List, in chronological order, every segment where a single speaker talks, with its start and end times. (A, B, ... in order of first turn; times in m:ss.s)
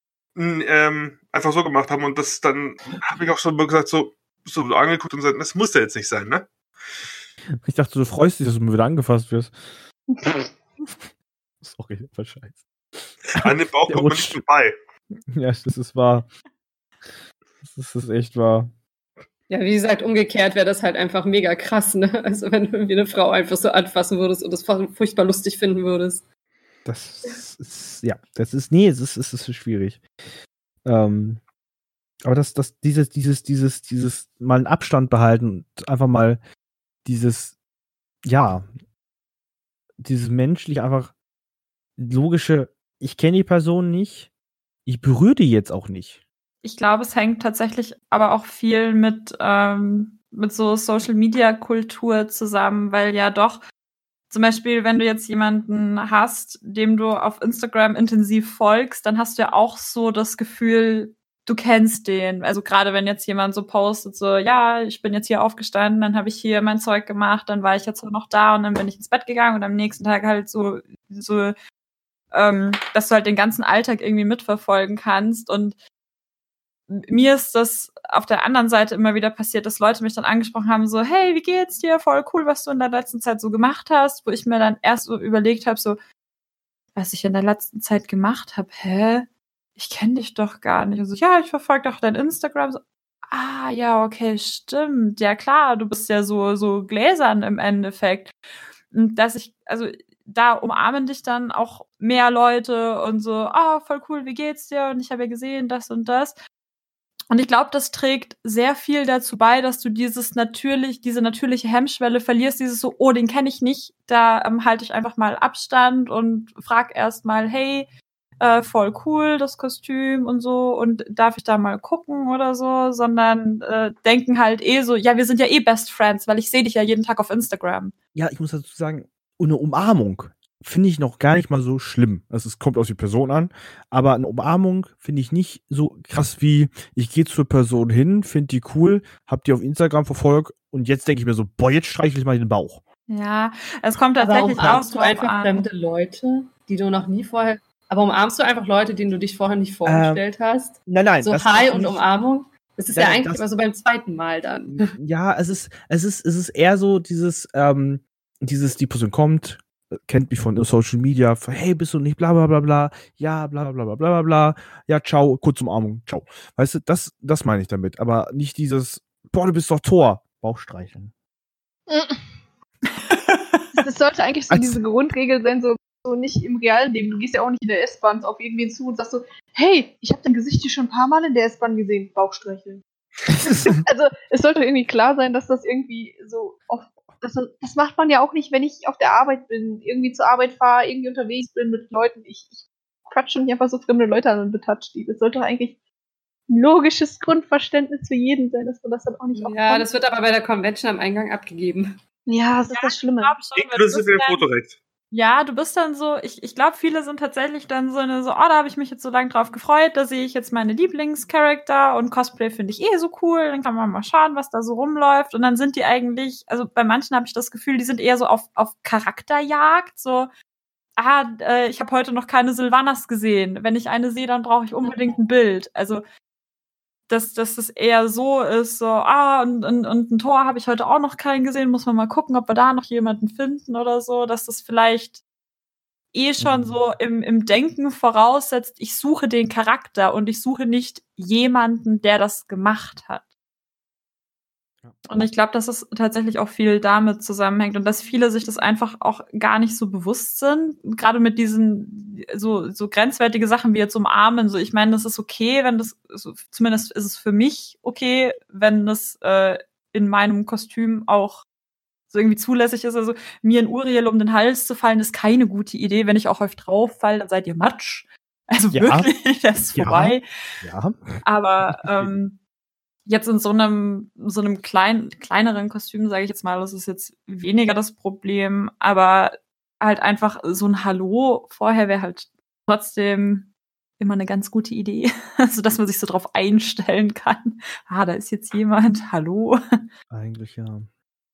0:00.4-0:06.5 A
0:07.6-0:09.7 B
0:11.6-0:14.4 B
0:13.3-0:14.7 A
0:15.3-0:16.3 B
0:17.6-0:18.7 B
0:19.5-0:26.2 C
0:26.8-0:30.0 B
0:30.8-0:31.4 B
0:32.2-0:36.4 B
0:37.0-0:37.6 B
0:38.2-0:38.7 B
0:40.0-0:41.1 B
0:42.0-0:44.3 B
0:44.9-0:46.2 B
0:46.6-0:53.6 D
0:54.3-1:11.5 D
1:12.3-1:15.8 D
1:16.9-1:26.0 D
1:27.0-1:38.4 D
1:38.9-1:46.4 D
1:47.3-2:07.9 D
2:08.2-2:22.8 B
2:23.1-2:25.7 D
2:24.2-2:34.9 C
2:24.6-2:24.8 B
2:29.8-2:30.2 B
2:30.9-2:32.0 B
2:32.9-2:33.4 B
2:34.7-2:51.1 B
2:51.9-2:52.3 E
2:53.1-2:53.6 D
2:53.7-3:02.8 E
2:54.5-2:54.8 B
3:03.3-3:03.8 B
3:03.8-3:15.8 E
3:16.5-3:19.9 E
3:19.4-3:22.0 C
3:22.3-3:23.4 E
3:22.7-3:24.5 D
3:23.6-3:24.8 A
3:25.1-3:40.3 D
3:41.0-3:46.0 D
3:47.1-3:55.2 D
3:56.1-4:03.3 D
3:56.4-3:56.8 B
4:05.1-4:21.5 D
4:22.1-4:30.6 D
4:28.7-4:29.1 B
4:29.7-4:31.2 B
4:31.2-4:32.4 D
4:31.8-4:32.2 B
4:33.1-4:49.6 D
4:50.1-4:50.9 B